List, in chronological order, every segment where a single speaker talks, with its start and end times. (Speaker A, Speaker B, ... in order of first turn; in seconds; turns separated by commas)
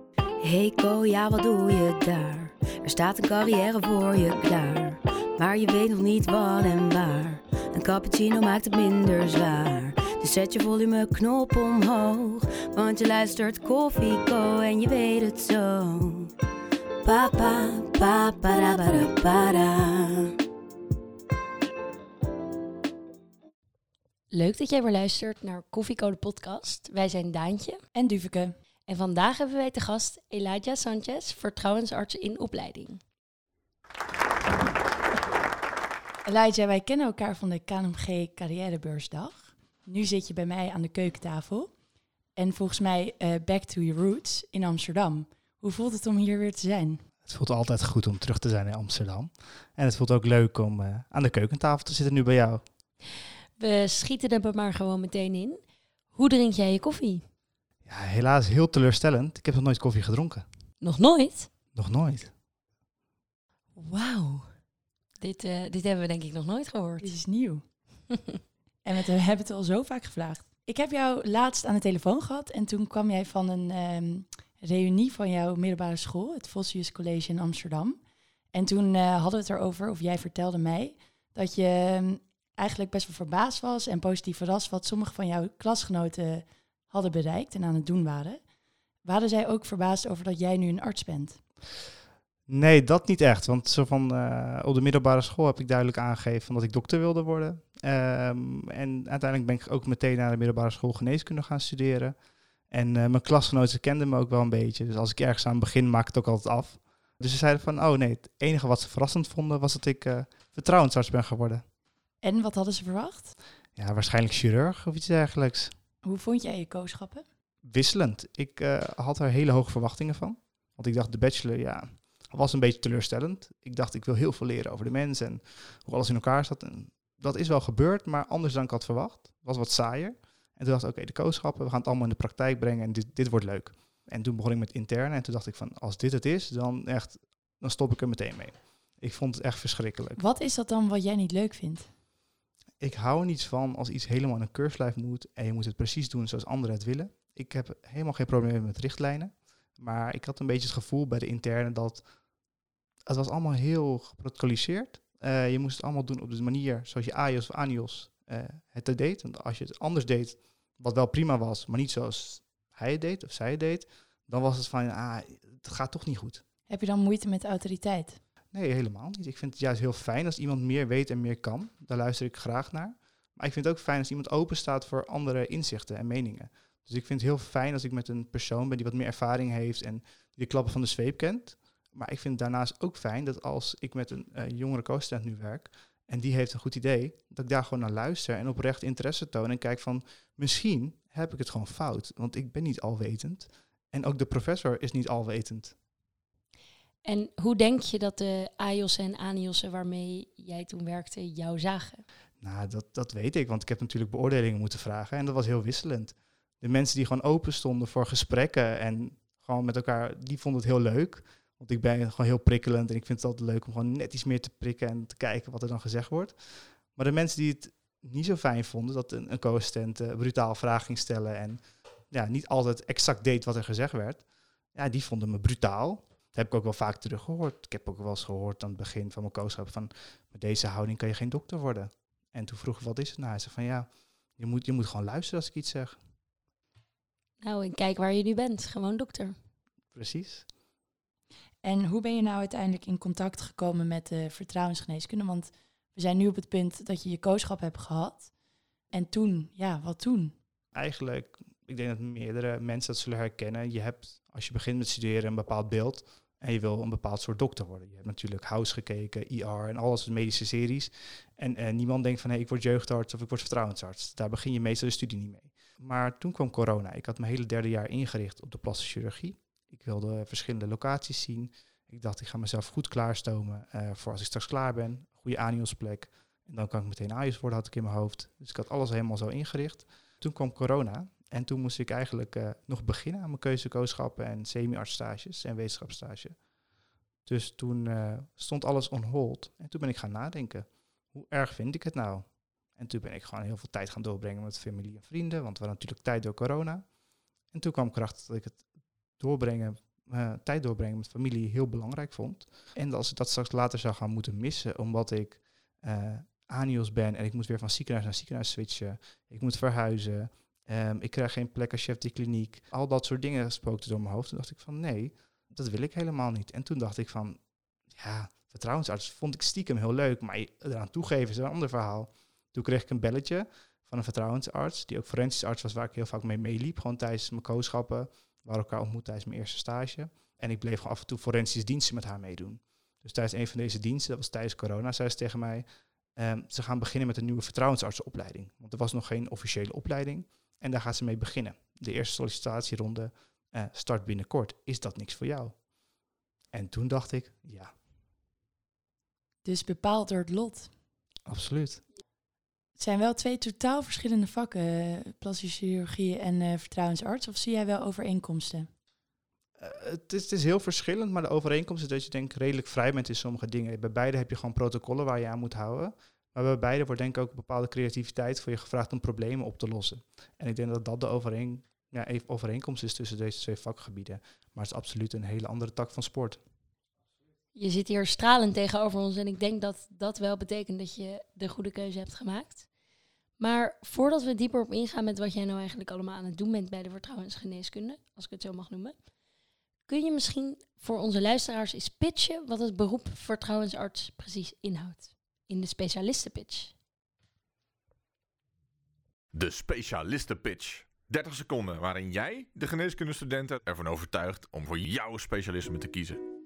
Speaker A: 0.4-16.3, Speaker A: 17.0-20.3, Speaker B: 24.3-27.8, Speaker C: 27.9-28.5, Speaker B: 28.9-33.0, Speaker C: 36.2-41.7, Speaker C: 42.4-47.0, Speaker D: 47.2-52.6, Speaker B: 53.6-55.6, Speaker B: 56.1-57.2, Speaker D: 57.8-60.4, Speaker B: 60.8-61.5, Speaker D: 61.8-62.3, Speaker B: 63.8-64.5, Speaker B: 65.2-67.1, Speaker C: 67.0-67.6, Speaker C: 68.8-78.0, Speaker C: 78.5-88.4, Speaker C: 89.0-91.4, Speaker D: 92.5-102.2, Speaker D: 102.7-111.6, Speaker C: 112.2-113.3, Speaker D: 113.8-115.7, Speaker C: 116.0-117.2, Speaker D: 117.6-140.2, Speaker C: 140.2-141.9, Speaker D: 142.8-152.0, Speaker D: 153.1-166.4, Speaker C: 166.7-168.2, Speaker D: 168.5-195.8, Speaker B: 197.1-202.0, Speaker D: 202.4-216.4, Speaker D: 216.9-221.6, Speaker D: 222.1-224.2, Speaker D: 224.8-236.0, Speaker B: 237.4-239.3, Speaker D: 239.9-240.5, Speaker C: 241.6-248.3, Speaker C: 248.9-250.3, Speaker D: 250.7-286.4, Speaker D: 287.2-296.8, Speaker D: 297.5-298.6, Speaker D: 299.2-317.4, Speaker D: 317.9-335.6, Speaker D: 336.1-345.5, Speaker D: 346.5-347.7, Speaker C: 349.4-350.7, Speaker D: 351.3-351.8, Speaker C: 352.8-358.7, Speaker D: 359.6-376.4, Speaker B: 377.5-382.6, Speaker B: 383.4-388.9, Speaker B: 389.9-396.7, Speaker E: 399.3-406.2